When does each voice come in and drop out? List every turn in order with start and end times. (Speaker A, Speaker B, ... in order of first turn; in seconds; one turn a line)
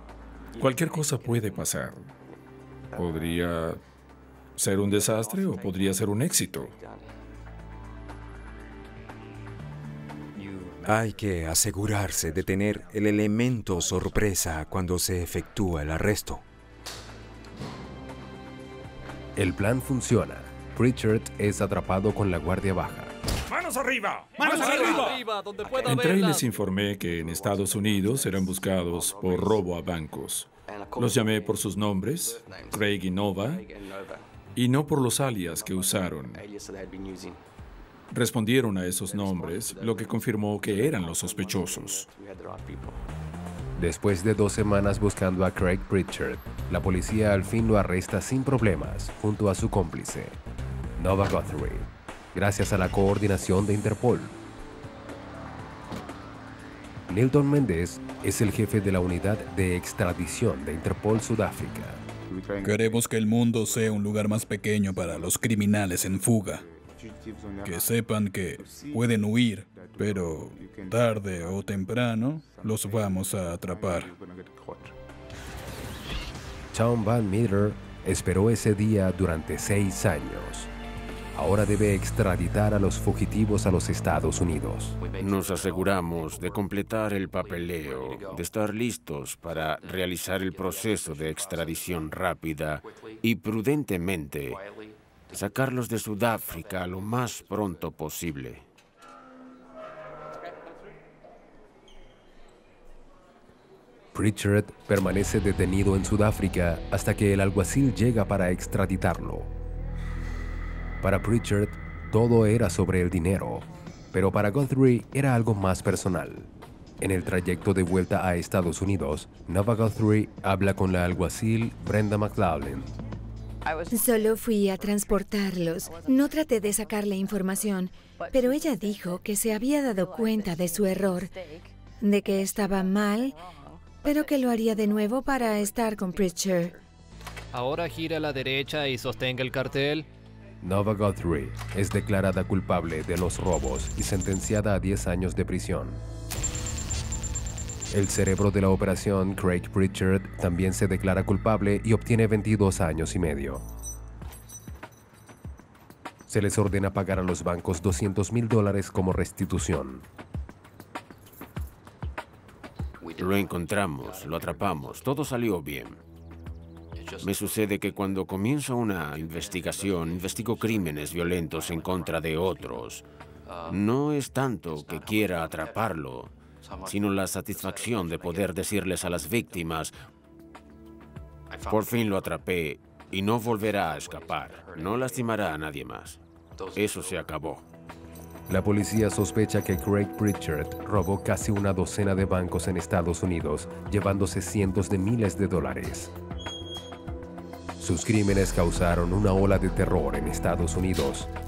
Speaker A: 0.6-2.0
Speaker A: 2.9-3.8
Speaker A: 4.6-6.7
Speaker B: 10.8-16.4
Speaker C: 19.4-23.1
Speaker A: 23.5-25.2
Speaker D: 24.4-26.4
Speaker A: 25.7-33.7
Speaker A: 34.5-36.4
Speaker A: 38.1-42.1
Speaker C: 43.8-50.4
Speaker C: 51.0-54.4
Speaker C: 57.1-62.0
Speaker E: 62.6-66.6
Speaker E: 67.6-74.1
Speaker C: 76.7-80.7
Speaker C: 81.3-85.0
Speaker F: 85.2-94.6
Speaker F: 95.3-98.6
Speaker C: 104.1-109.5
Speaker C: 111.0-116.5
Speaker C: 117.0-122.9
Speaker G: 123.9-131.3
Speaker G: 132.0-133.3
Speaker G: 134.0-136.8
Speaker D: 137.5-140.1
Speaker C: 140.6-146.0
Speaker C: 147.9-153.6
Speaker C: 156.3-160.1
Speaker F: 163.2-166.0
Speaker F: 167.2-173.0
Speaker F: 173.7-176.3
Speaker F: 176.8-179.9
Speaker F: 181.7-186.2
Speaker F: 186.7-187.6
Speaker C: 188.5-196.1
Speaker C: 197.8-201.3